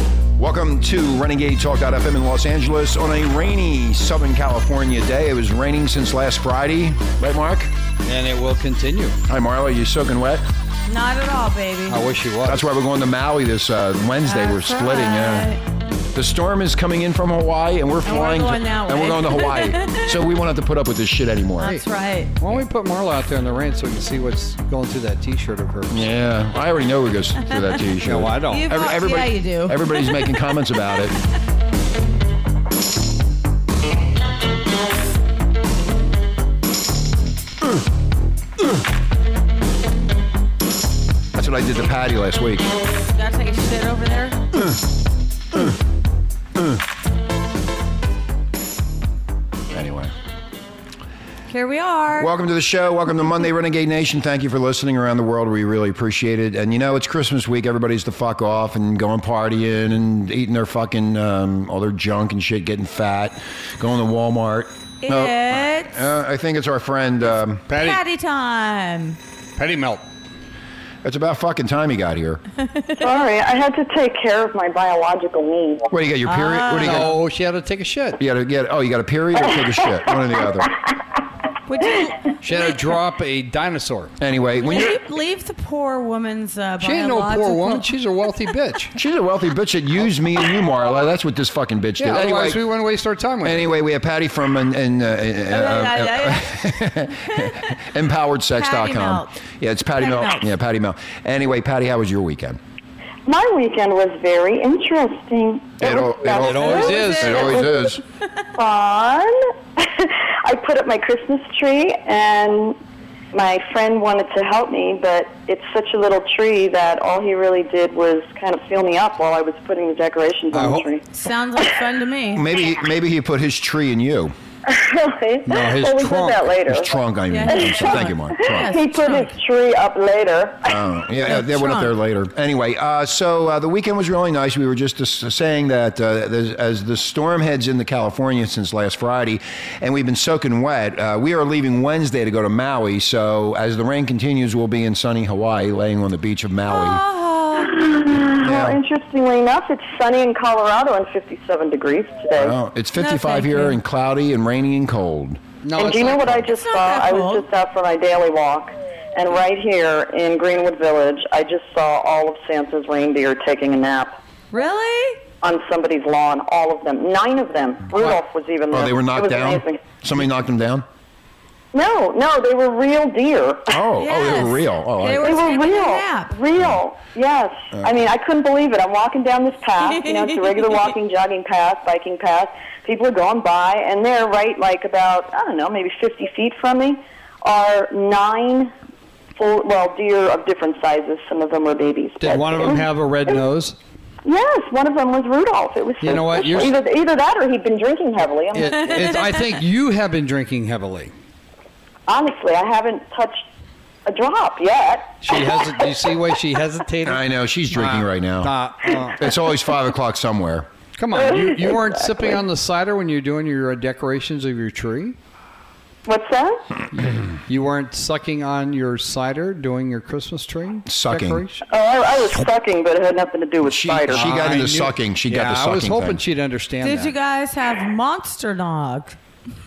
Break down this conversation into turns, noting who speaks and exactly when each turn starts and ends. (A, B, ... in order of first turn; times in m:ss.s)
0:00.4-0:07.7 A
0:08.0-0:09.2 B
0:09.3-0:10.4 A
0:10.9-0:12.0 C
0:11.9-0:12.7 B
0:12.4-0:15.5 A
0:14.2-0:15.6 C
0:16.1-0:21.8 A
0:18.0-0:20.2 C
0:21.6-0:22.3 C
0:22.4-0:26.1 B
0:25.9-0:31.2 A
0:28.0-0:28.7 B
0:28.5-0:30.4 C
0:41.3-0:42.7 A
0:43.1-0:44.5 C
0:49.7-0:50.1 A
0:51.5-0:52.3 C
0:52.2-1:07.6 A
1:05.0-1:06.0 C
1:07.7-1:08.0 B
1:07.7-1:09.2 C
1:09.6-1:10.0 B
1:11.0-1:12.4 A
1:12.7-1:13.0 C
1:13.0-1:15.9 D
1:15.9-1:17.1 A
1:16.2-1:17.1 C
1:16.8-1:18.2 B
1:18.2-1:20.7 A
1:21.7-1:22.8 C
1:22.4-1:24.1 B
1:24.2-1:25.0 A
1:24.6-1:27.8 C
1:26.8-1:28.9 B
1:28.9-1:32.6 A
1:32.0-1:33.7 B
1:33.4-1:42.6 A
1:35.5-1:37.7 C
1:38.5-1:39.3 C
1:40.0-1:40.5 C
1:43.2-1:47.6 D
1:45.8-1:48.0 A
1:46.3-1:47.6 B
1:46.6-1:47.7 C
1:48.6-1:52.8 D
1:53.3-2:01.0 D
2:00.5-2:00.9 B
2:01.1-2:02.6 C
2:02.3-2:04.3 A
2:04.6-2:06.9 D
2:05.4-2:06.5 B
2:06.7-2:08.8 A
2:07.3-2:09.3 C
2:07.6-2:10.8 D
2:10.6-2:27.0 A
2:11.2-2:11.9 C
2:26.7-2:27.9 C
2:27.6-2:32.5 D
2:28.4-2:28.8 A
2:32.3-2:35.4 A
2:33.0-2:33.8 C
2:35.6-2:36.5 B
2:35.8-2:44.2 D
2:36.4-2:37.4 C
2:44.5-2:45.2 C
2:45.4-2:49.8 D
2:48.7-2:50.8 A
2:51.7-2:53.8 D
2:53.7-2:55.4 A
2:54.0-2:56.4 C
2:55.2-3:08.7 D
2:56.6-2:56.8 A
2:59.8-3:00.6 C
3:09.4-3:12.9 D
3:12.2-3:13.8 B
3:14.2-3:19.2 D
3:16.0-3:16.7 B
3:18.5-3:21.1 B
3:18.9-3:19.4 C
3:22.1-3:23.4 D
3:24.0-3:25.7 D
3:25.2-3:29.3 B
3:27.0-3:28.5 A
3:29.1-3:30.7 A
3:31.0-3:35.2 B
3:31.2-3:31.8 D
3:36.0-3:36.6 D
3:36.9-3:41.6 B
3:40.9-3:41.4 A
3:41.7-3:44.3 D
3:43.6-3:46.2 A
3:44.1-3:47.1 B
3:46.8-3:49.2 C